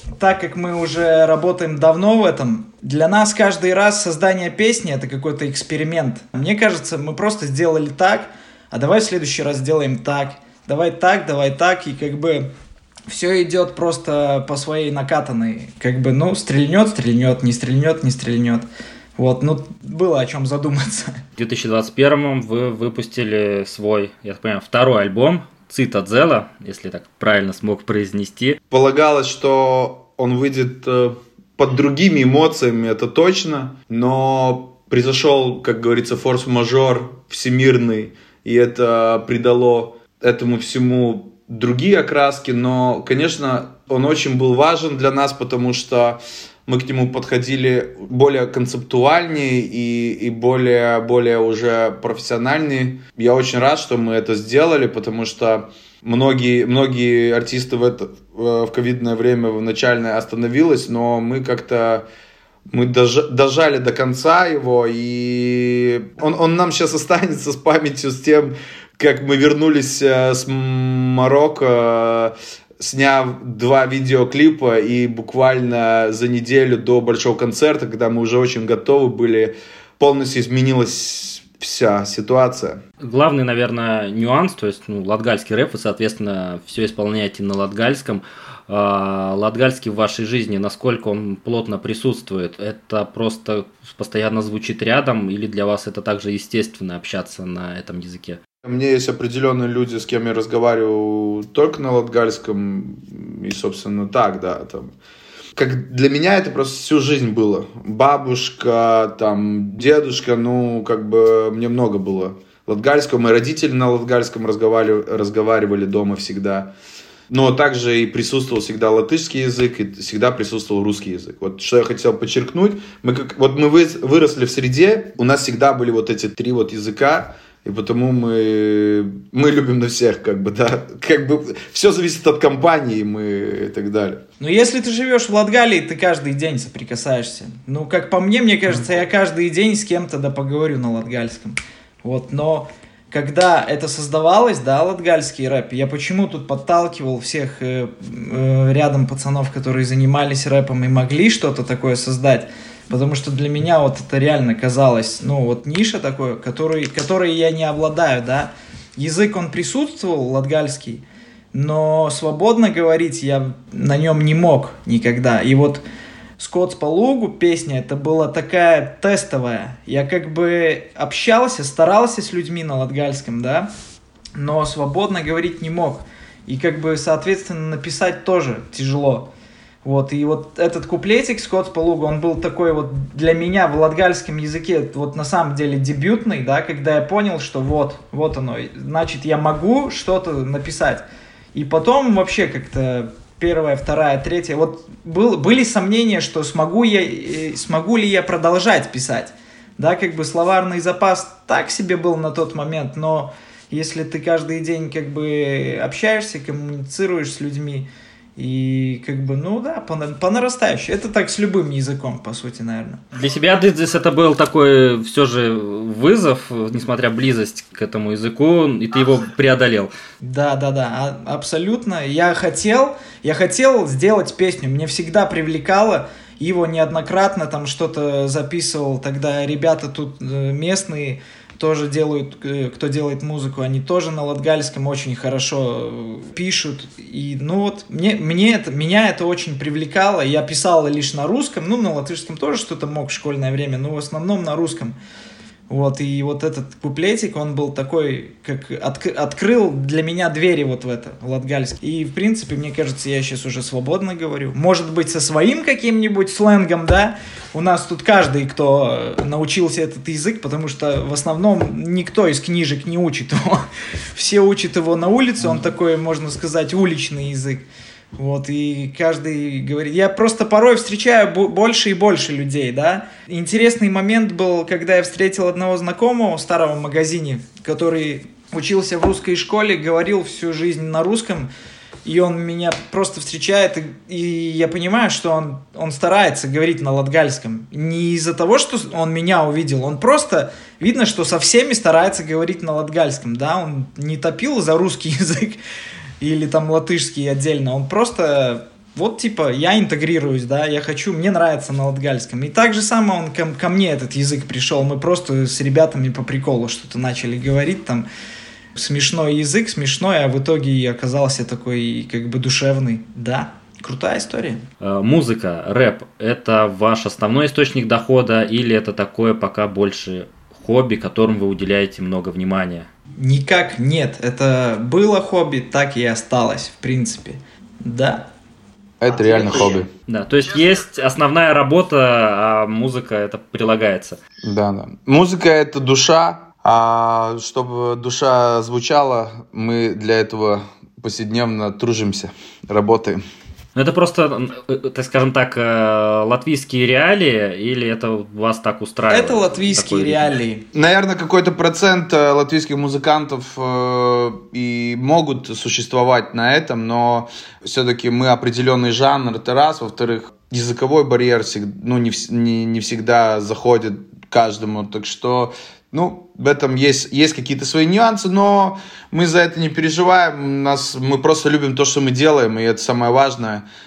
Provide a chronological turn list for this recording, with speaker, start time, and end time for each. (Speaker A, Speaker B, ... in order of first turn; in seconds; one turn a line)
Speaker A: 0.2-12.5
Speaker A: 13.1-21.2
Speaker B: 21.4-28.6
Speaker C: 28.7-62.0
Speaker C: 62.7-82.8
Speaker B: 83.0-98.4
Speaker C: 98.6-104.9
Speaker C: 105.5-116.7
Speaker C: 117.3-134.2
Speaker A: 134.4-165.8
Speaker A: 166.4-173.7
Speaker A: 174.3-179.3
Speaker A: 179.8-213.0
Speaker B: 213.2-219.9
Speaker A: 220.2-244.9
Speaker A: 245.7-281.5
Speaker A: 282.0-295.6
Speaker A: 296.2-308.1
Speaker A: 308.7-314.6
Speaker B: 314.8-322.9
Speaker A: 323.2-328.3
Speaker C: 329.0-329.9
Speaker B: 330.1-334.2
Speaker C: 334.4-343.2
Speaker B: 343.8-350.4
Speaker A: 349.1-350.6
Speaker C: 350.7-373.6